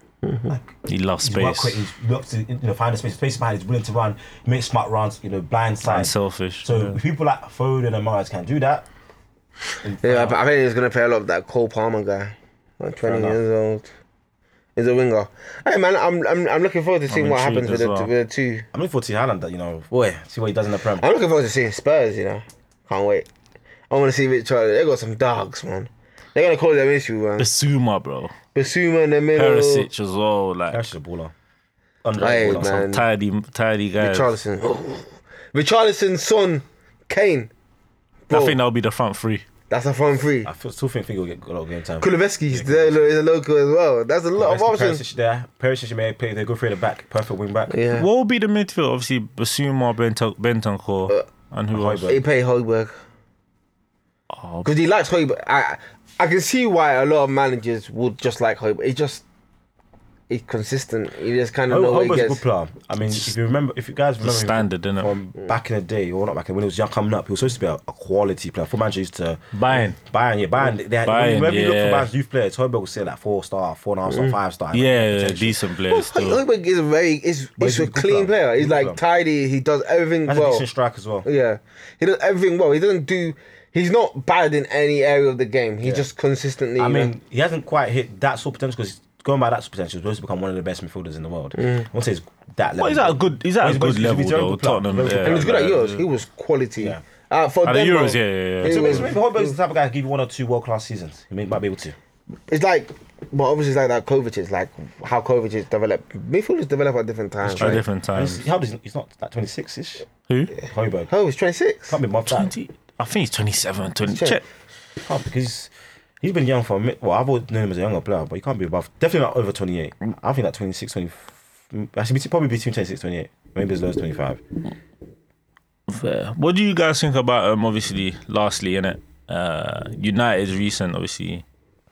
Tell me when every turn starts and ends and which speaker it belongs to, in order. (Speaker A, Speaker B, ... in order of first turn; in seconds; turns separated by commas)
Speaker A: 0.2-0.5, Speaker B: 0.5-8.9, Speaker C: 0.9-1.8, Speaker C: 5.8-7.0, Speaker B: 9.8-10.4, Speaker A: 10.0-13.9, Speaker B: 13.0-13.4, Speaker A: 14.8-18.7, Speaker C: 17.1-18.1, Speaker B: 18.7-21.1, Speaker A: 21.0-23.3, Speaker A: 23.9-27.5, Speaker C: 27.4-28.3, Speaker A: 28.5-29.9, Speaker C: 29.4-30.8, Speaker B: 30.7-31.3, Speaker B: 32.0-32.9, Speaker A: 32.2-33.0, Speaker C: 32.5-34.3, Speaker A: 34.0-37.5, Speaker A: 38.3-38.6, Speaker C: 38.3-39.5, Speaker A: 39.7-40.5, Speaker B: 40.4-43.1, Speaker A: 42.0-45.0, Speaker B: 44.4-47.8, Speaker A: 47.7-48.1, Speaker C: 47.9-52.2, Speaker B: 51.7-52.2, Speaker A: 52.1-53.0, Speaker C: 54.3-54.7, Speaker A: 54.6-59.2, Speaker A: 60.3-62.4, Speaker B: 61.7-69.4, Speaker C: 64.2-65.1, Speaker C: 69.5-70.0, Speaker B: 70.0-75.6, Speaker C: 71.0-72.1, Speaker A: 74.1-74.4, Speaker C: 74.7-76.4, Speaker A: 75.9-80.7, Speaker B: 77.6-79.0, Speaker B: 80.3-81.3, Speaker A: 81.2-87.1, Speaker B: 85.8-86.1, Speaker B: 86.8-95.8, Speaker A: 91.6-91.9, Speaker C: 92.8-96.0, Speaker A: 95.2-99.5, Speaker C: 97.6-99.1, Speaker B: 98.6-102.0, Speaker A: 102.5-107.8, Speaker C: 107.5-108.4, Speaker B: 107.6-110.1, Speaker C: 110.3-110.5, Speaker B: 110.7-111.1, Speaker A: 111.1-112.0, Speaker B: 111.9-112.5, Speaker C: 112.3-114.5, Speaker A: 114.1-114.4, Speaker B: 115.0-124.4, Speaker C: 125.9-131.4